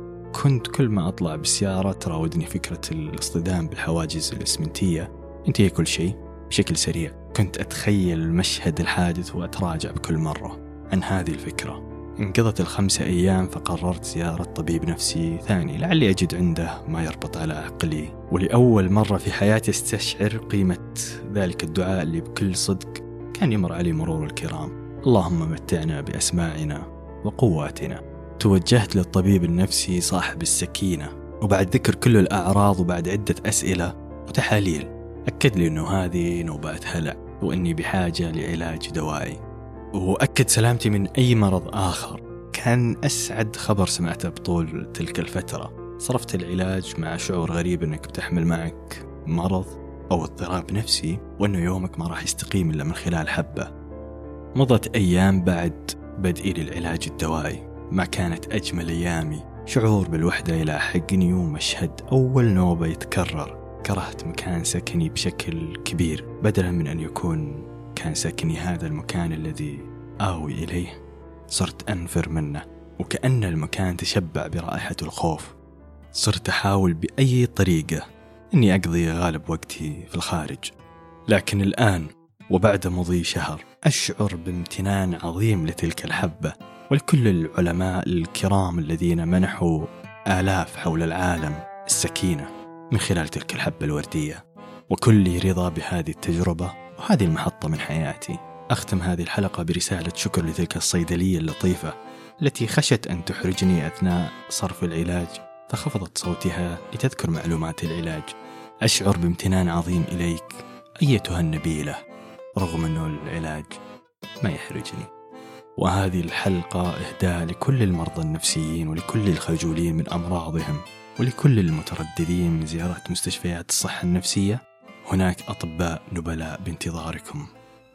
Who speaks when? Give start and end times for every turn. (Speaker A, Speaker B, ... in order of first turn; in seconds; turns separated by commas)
Speaker A: 0.3-39.4, Speaker A: 40.0-53.7, Speaker A: 54.6-71.0, Speaker A: 71.5-75.5, Speaker A: 76.1-78.0, Speaker A: 78.5-80.7, Speaker A: 81.3-108.3, Speaker A: 108.8-112.0, Speaker A: 112.6-113.8, Speaker A: 114.4-115.1, Speaker A: 115.8-127.5